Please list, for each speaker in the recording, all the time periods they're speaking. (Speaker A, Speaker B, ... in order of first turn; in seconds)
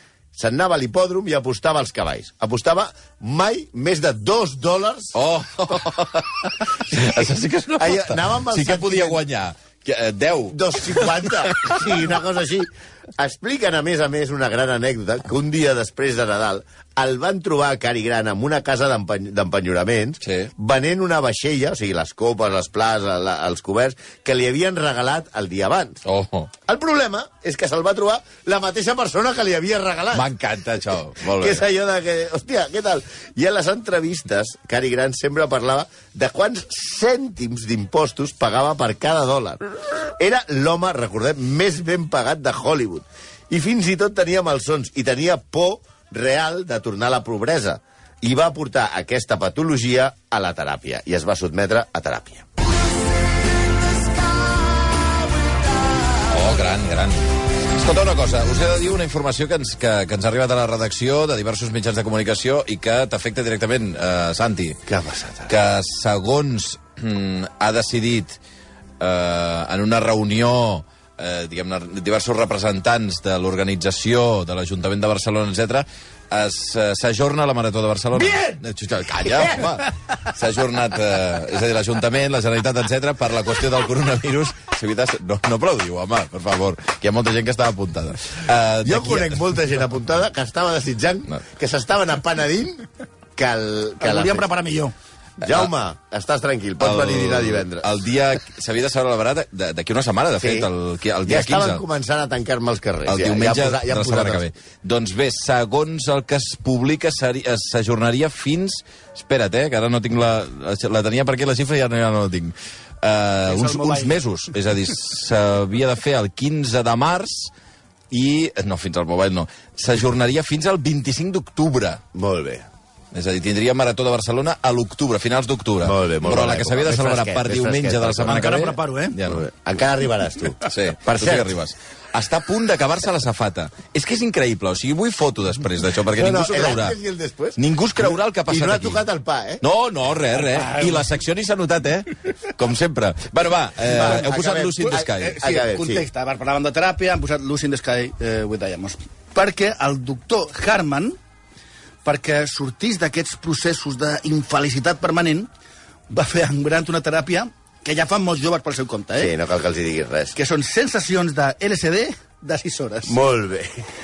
Speaker A: 0.3-5.2, 6.9-7.2, 7.8-9.2, 10.5-26.0, 26.6-30.3, 31.2-52.5, 64.9-65.5, 88.8-94.5, 95.4-97.9, 100.4-100.7, 101.2-104.4, 122.1-122.7, 125.8-128.5, 129.2-131.5, 136.2-139.6, 143.8-146.0, 159.2-160.3, 163.1-163.9
Speaker B: 5.2-11.8, 20.2-20.5, 26.0-26.5, 30.1-31.6, 56.3-64.8, 65.5-68.4, 69.0-89.4, 95.4-95.7, 96.8-101.8, 103.1-117.5, 118.1-122.0, 123.1-129.4, 130.7-136.9, 137.6-139.0, 139.6-145.4
Speaker C: 94.0-94.9, 113.5-114.2, 128.2-129.2, 140.3-141.1, 145.1-151.2, 152.0-155.5, 156.1-159.3, 160.3-163.2